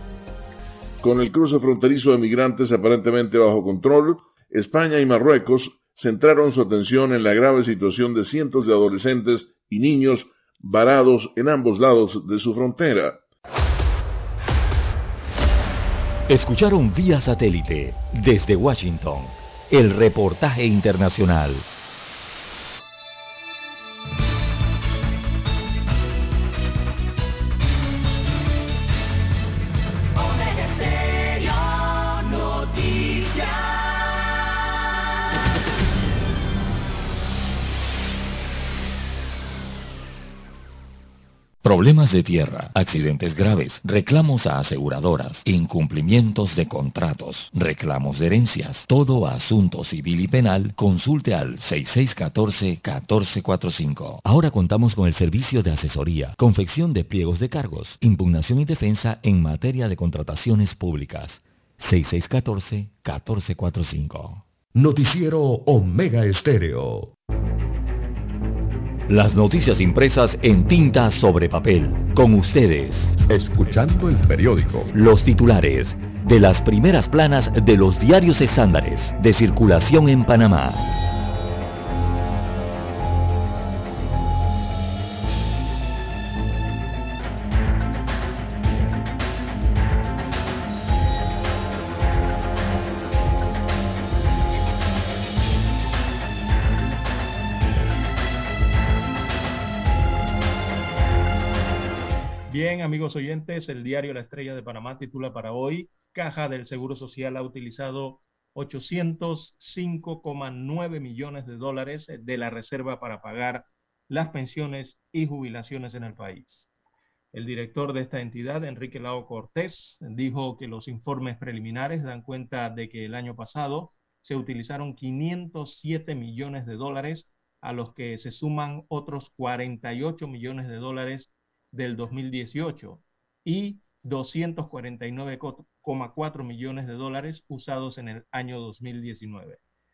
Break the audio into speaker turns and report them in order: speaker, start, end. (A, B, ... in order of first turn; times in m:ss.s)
0:01.0-0:13.2 A
0:16.3-0:21.6 B
0:41.6-1:04.4 B
1:04.7-1:07.1 C
1:09.1-1:13.2 B
1:13.3-1:14.9 C
1:14.9-1:20.8 B
1:42.5-1:56.7 D
1:57.3-2:19.6 D